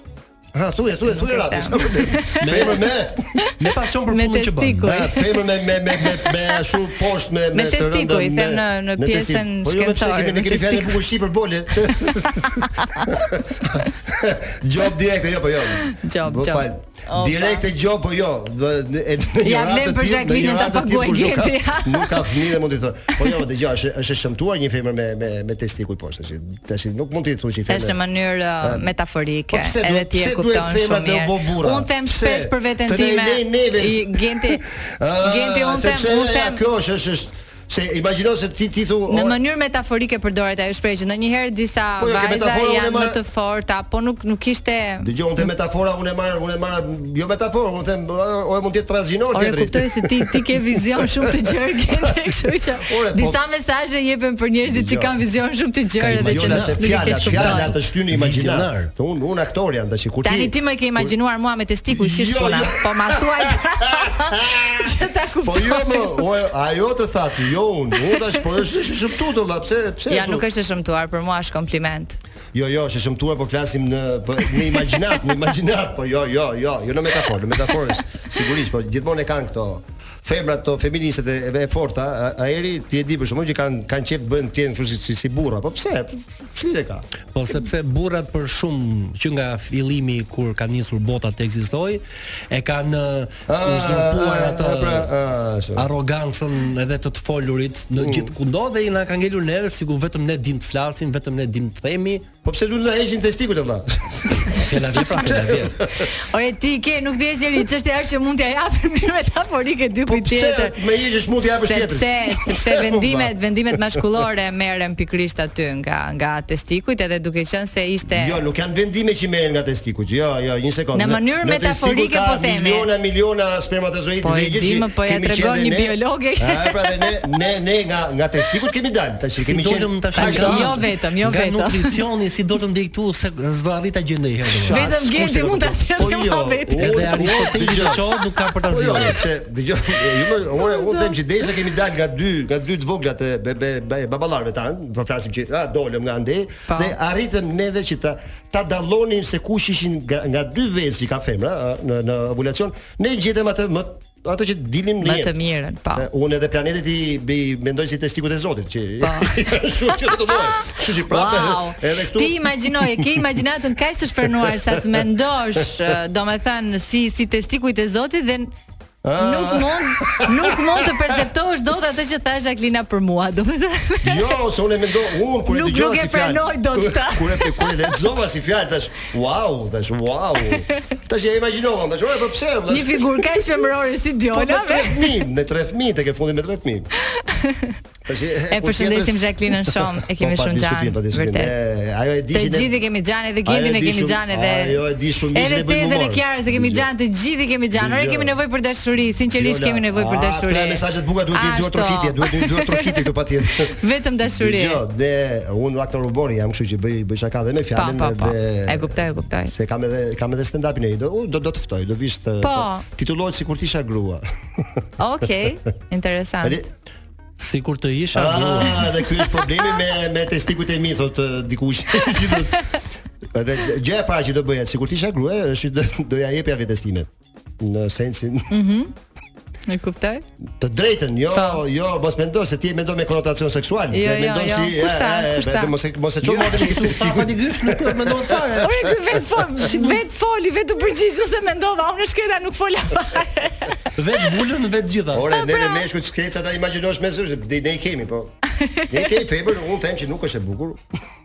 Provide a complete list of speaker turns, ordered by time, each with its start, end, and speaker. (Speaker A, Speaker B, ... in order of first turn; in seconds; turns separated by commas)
Speaker A: 0.5-3.4, Speaker B: 1.1-2.8, Speaker C: 2.4-2.9, Speaker B: 3.4-6.3, Speaker C: 3.6-5.0, Speaker A: 4.8-28.0, Speaker B: 7.5-11.0, Speaker B: 12.1-13.1, Speaker B: 15.8-17.6, Speaker B: 19.4-22.3, Speaker B: 27.7-34.6, Speaker A: 28.6-28.9, Speaker A: 29.5-39.4, Speaker B: 35.2-36.6, Speaker B: 39.1-45.4, Speaker A: 42.0-43.2, Speaker A: 45.0-51.3, Speaker B: 49.3-57.7, Speaker A: 51.9-53.4, Speaker A: 54.6-55.1, Speaker C: 56.0-58.9, Speaker A: 56.2-61.1, Speaker B: 60.2-66.2, Speaker A: 61.9-70.5, Speaker B: 70.1-72.2, Speaker A: 72.5-87.0, Speaker C: 87.3-95.1, Speaker A: 93.5-95.9, Speaker C: 95.8-102.3, Speaker A: 98.0-98.3, Speaker A: 102.4-106.1, Speaker C: 104.6-105.8, Speaker B: 106.2-110.8, Speaker A: 110.0-113.3, Speaker B: 111.6-118.4, Speaker A: 118.1-130.8, Speaker B: 120.9-122.9, Speaker B: 124.2-127.3, Speaker C: 129.4-134.9, Speaker B: 130.1-132.0, Speaker A: 134.5-155.3, Speaker B: 134.7-139.0, Speaker C: 136.8-139.2, Speaker B: 140.6-141.2, Speaker B: 155.0-156.1, Speaker A: 155.9-163.2, Speaker B: 159.0-159.5, Speaker B: 160.0-168.5, Speaker A: 164.5-165.0, Speaker A: 169.0-171.0, Speaker B: 169.2-174.3, Speaker A: 174.0-183.6, Speaker B: 175.5-177.9, Speaker B: 182.7-185.1, Speaker A: 184.3-186.9, Speaker B: 187.2-187.8, Speaker A: 188.1-189.3, Speaker B: 188.5-191.5, Speaker A: 190.2-192.7, Speaker B: 192.3-194.8, Speaker A: 193.4-196.9, Speaker B: 195.3-203.0, Speaker A: 197.7-198.4, Speaker A: 199.3-214.8, Speaker B: 203.6-204.8, Speaker B: 207.7-209.5, Speaker B: 212.4-212.8, Speaker B: 215.0-216.6, Speaker C: 217.4-218.9, Speaker A: 218.1-222.6, Speaker A: 223.3-227.1, Speaker A: 227.6-228.5, Speaker B: 228.5-228.9, Speaker B: 229.7-230.2, Speaker A: 230.6-238.6, Speaker B: 231.3-231.6, Speaker B: 233.9-235.7, Speaker C: 236.2-238.9, Speaker B: 238.6-243.8, Speaker C: 239.6-240.0, Speaker C: 243.9-245.3, Speaker A: 245.1-248.3, Speaker B: 245.4-245.8, Speaker B: 248.6-248.9, Speaker A: 248.9-250.8